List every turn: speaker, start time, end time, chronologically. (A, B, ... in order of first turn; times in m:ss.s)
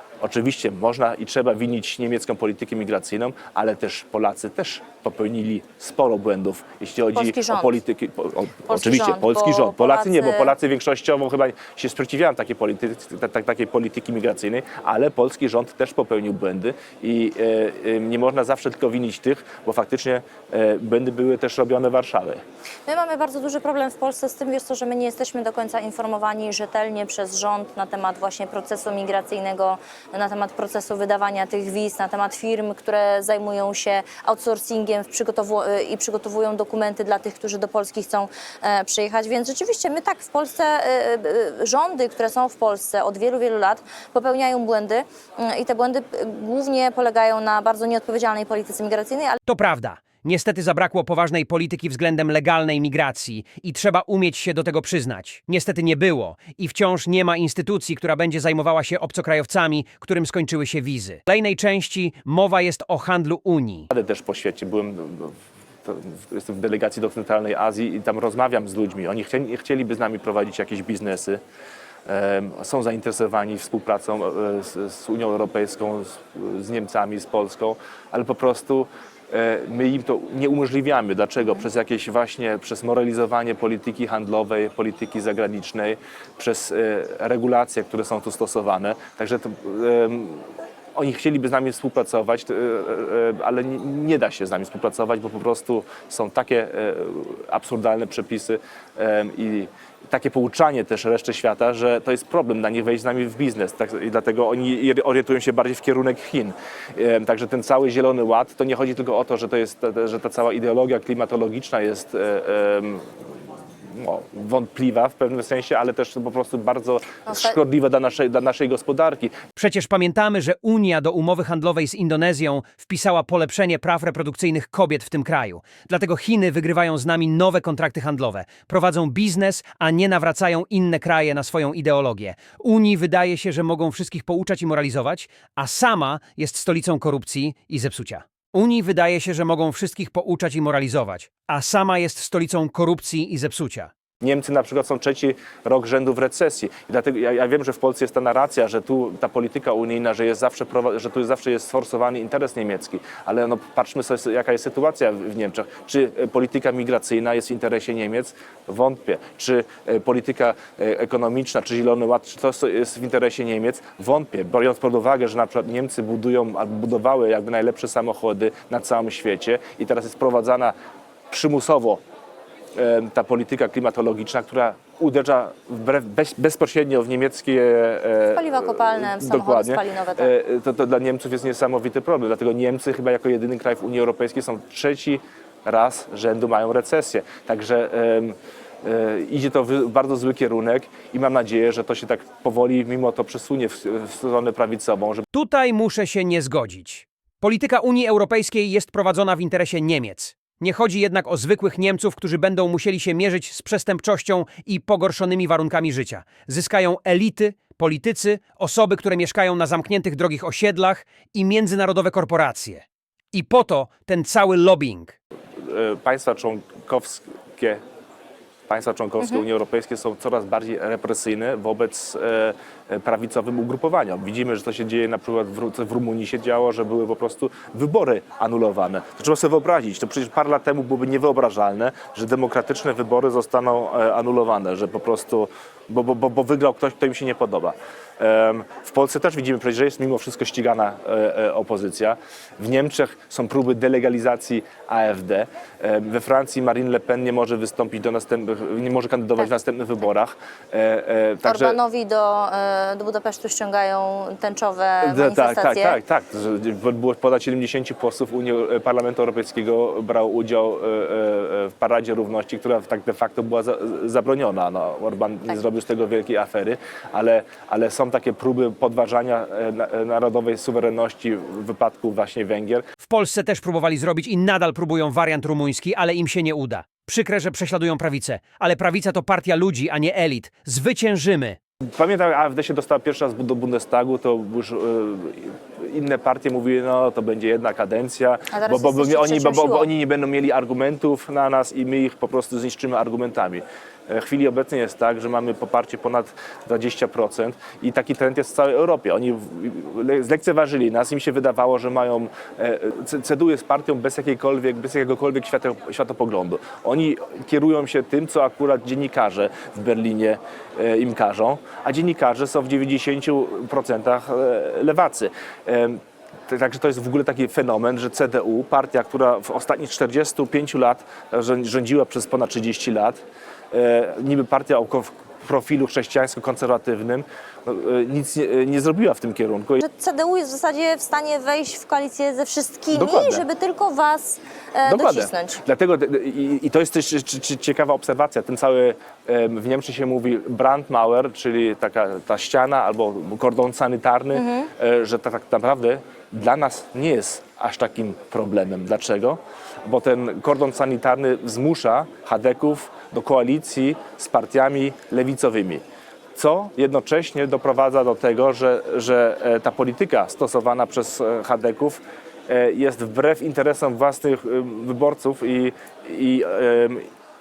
0:00.2-0:22.4 A
0:07.1-0:07.8 B
0:08.7-0:10.5 B
0:22.9-0:49.4 B
0:49.5-1:03.9 C
1:03.9-1:11.4 A
1:12.1-1:53.0 A
1:53.9-1:59.3 A
1:57.2-1:57.6 B
1:59.6-2:23.9 C
2:24.2-2:50.7 A
2:51.3-2:52.0 A
2:52.7-3:15.2 A
2:58.3-3:00.3 B
3:15.3-3:35.1 C
3:35.6-3:37.8 A
3:38.7-4:11.8 A
4:11.4-4:16.0 B
4:15.0-4:32.8 A
4:33.0-4:41.6 C
4:41.9-5:23.2 A
4:48.5-4:49.9 B
5:23.7-5:29.8 A
5:29.8-5:35.6 B
5:32.9-5:33.4 A
5:34.8-5:55.8 A
5:44.3-5:44.7 B
5:56.3-6:07.0 A